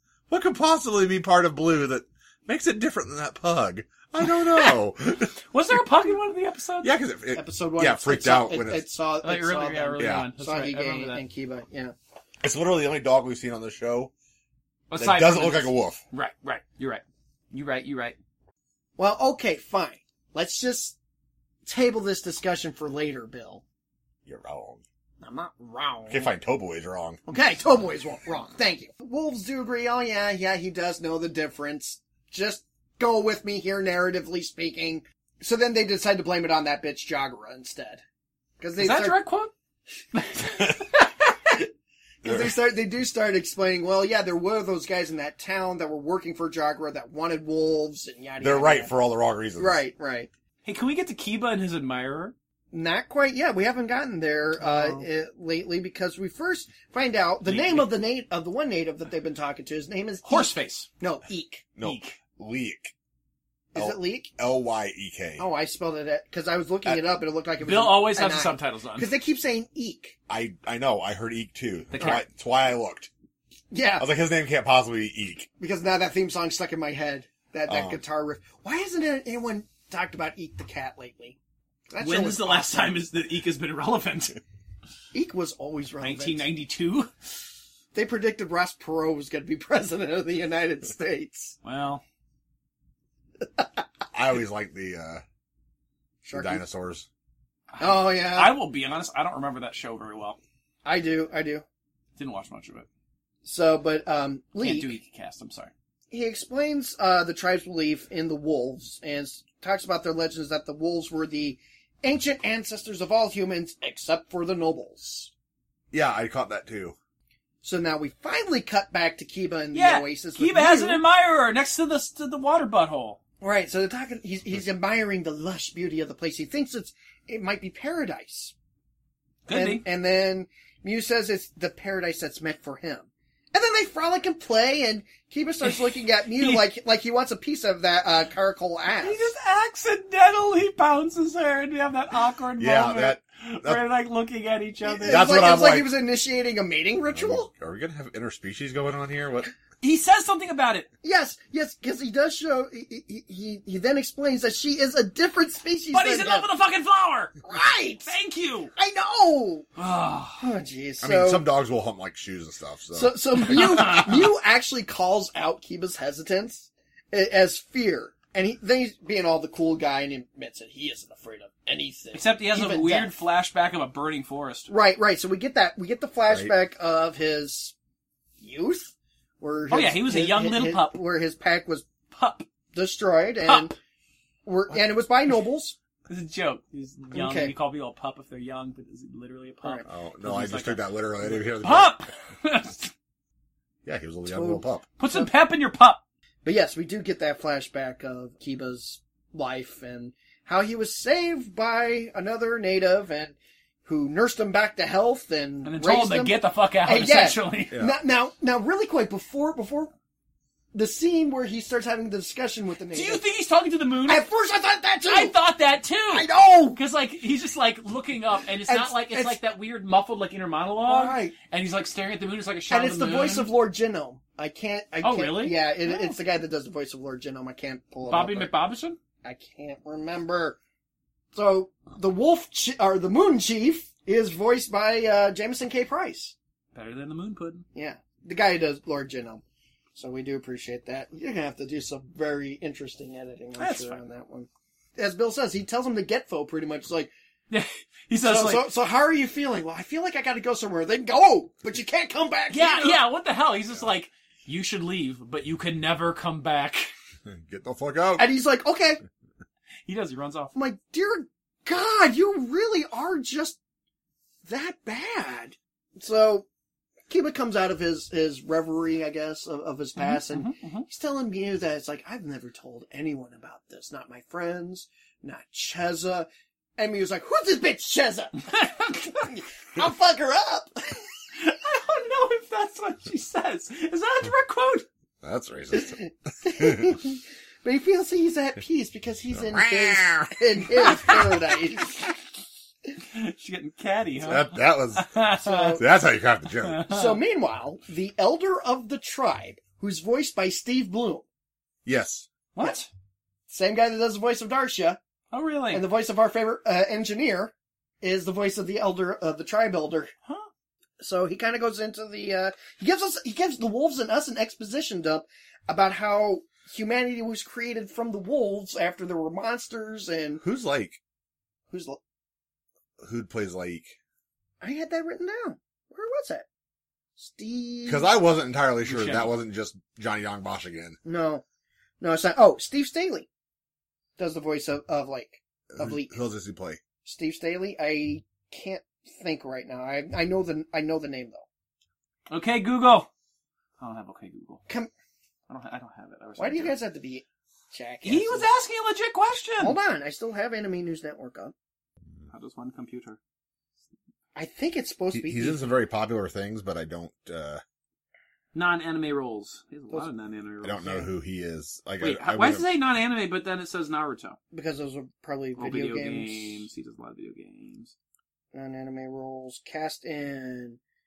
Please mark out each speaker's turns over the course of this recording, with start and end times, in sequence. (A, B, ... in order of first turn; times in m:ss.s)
0:00.3-0:05.4 A
0:04.2-0:04.8 B
0:05.5-0:06.9 B
0:06.8-0:08.9 A
0:07.3-0:12.0 C
0:09.2-0:11.2 B
0:10.0-0:10.3 A
0:12.4-0:14.1 A
0:14.9-0:18.2 B
0:15.0-0:16.0 A
0:19.0-0:21.0 C
0:21.6-0:23.6 C
0:24.3-0:24.8 A
0:25.2-0:26.3 C
0:26.1-0:27.2 A
0:27.3-0:38.0 C
0:38.6-0:39.2 C
0:38.8-0:39.5 B
0:40.1-0:41.1 B
0:42.2-0:48.9 C
0:42.2-0:42.6 A
0:48.4-0:49.8 A
0:49.6-0:50.3 C
0:50.6-0:52.4 B
0:52.7-1:01.7 C
0:54.6-0:55.1 B
0:57.4-0:57.9 B
1:00.2-1:00.9 B
1:01.8-1:02.9 A
1:01.8-1:02.2 B
1:03.7-1:04.3 C
1:03.8-1:05.5 A
1:05.4-1:10.2 C
1:07.6-1:09.1 B
1:10.3-1:13.1 A
1:11.9-1:12.2 B
1:13.7-1:14.1 C
1:14.0-1:15.5 A
1:15.6-1:21.4 C
1:17.7-1:18.0 A
1:21.9-1:23.0 C
1:22.0-1:24.4 B
1:25.1-1:26.5 C
1:26.0-1:27.1 B
1:27.9-1:31.6 C
1:31.6-1:32.0 B
1:33.4-1:33.8 C
1:34.1-1:35.2 A
1:36.2-1:36.6 C
1:36.3-1:37.1 A
1:37.7-1:40.4 B
1:37.8-1:38.6 C
1:40.8-1:41.6 C
1:42.2-1:42.9 B
1:43.4-1:45.0 C
1:44.6-1:45.7 B
1:46.1-1:55.3 C
1:55.9-1:57.0 A
1:57.6-2:01.0 C
1:59.7-2:03.2 B
2:03.4-2:08.5 C
2:09.5-2:09.8 B
2:09.5-2:19.3 C
2:15.6-2:16.6 B
2:19.0-2:25.4 B
2:22.6-2:23.8 A
2:24.9-2:27.5 C
2:25.0-2:25.9 A
2:27.1-2:29.5 A
2:29.8-2:30.9 B
2:31.0-2:36.5 C
2:35.9-2:37.4 B
2:37.4-2:38.1 C
2:38.0-2:38.7 B
2:38.8-2:39.7 C
2:39.8-2:40.4 B
2:40.4-2:41.5 C
2:41.0-2:43.9 A
2:42.9-2:53.1 C
2:43.4-2:44.3 B
2:52.1-2:54.7 B
2:54.7-2:57.8 C
2:56.3-2:56.6 A
2:58.4-3:01.9 C
2:59.7-3:01.0 B
3:02.1-3:02.5 B
3:02.7-3:03.8 C
3:03.4-3:03.7 B
3:04.4-3:05.8 C
3:06.1-3:12.9 B
3:07.1-3:07.5 C
3:09.6-3:09.9 C
3:09.9-3:12.1 A
3:13.8-3:14.9 A
3:14.3-3:15.3 C
3:15.0-3:16.0 B
3:16.4-3:29.9 C
3:25.6-3:27.8 B
3:27.7-3:28.0 A
3:30.7-3:33.2 C
3:32.9-3:34.2 B
3:34.1-3:35.4 C
3:35.1-3:43.5 B
3:36.1-3:36.8 C
3:38.6-3:39.4 C
3:40.8-3:41.4 C
3:42.7-3:48.5 C
3:45.0-3:46.2 B
3:48.0-3:49.0 B
3:49.2-3:50.6 C
3:51.3-3:56.4 C
3:56.7-3:57.7 B
3:57.8-3:59.4 C
4:00.0-4:07.1 C
4:03.6-4:04.0 B
4:07.5-4:08.7 B
4:08.2-4:13.0 C
4:12.5-4:16.9 B
4:17.2-4:18.3 A
4:18.2-4:19.0 C
4:19.9-4:20.5 B
4:20.6-4:23.6 C
4:24.4-4:26.5 C
4:27.1-4:41.0 C
4:30.0-4:30.9 B
4:38.5-4:39.0 B
4:41.4-4:44.9 B
4:45.2-4:47.0 A
4:45.7-4:52.1 C
4:49.3-4:51.4 A
4:53.1-4:55.8 B
4:54.2-4:55.2 A
4:55.4-4:55.9 C
4:55.8-4:56.9 A
4:56.6-4:57.2 B
4:56.9-5:01.2 C
5:01.8-5:02.3 A
5:02.5-5:02.9 B
5:03.5-5:05.0 C
5:05.3-5:05.8 B
5:05.7-5:10.1 C
5:11.0-5:20.4 C
5:20.4-5:21.0 A
5:21.7-5:22.0 C
5:23.0-5:24.0 A
5:24.6-5:26.4 C
5:27.2-5:28.1 C
5:27.9-5:31.0 A
5:28.8-5:29.3 B
5:31.0-5:31.4 C
5:32.0-5:33.3 C
5:34.2-5:36.2 C
5:35.7-5:36.8 A
5:37.0-5:41.4 C
5:42.3-5:43.1 B
5:43.8-5:44.6 B
5:45.5-5:46.8 B
5:46.4-5:48.5 C
5:48.0-5:49.8 B
5:49.6-5:51.5 C
5:52.3-5:53.2 B
5:54.4-5:55.6 C
5:55.1-5:57.6 A
5:58.5-6:01.1 B
6:00.6-6:02.8 A
6:02.0-6:04.4 B
6:04.5-6:06.7 C
6:05.6-6:07.9 B
6:08.5-6:10.8 C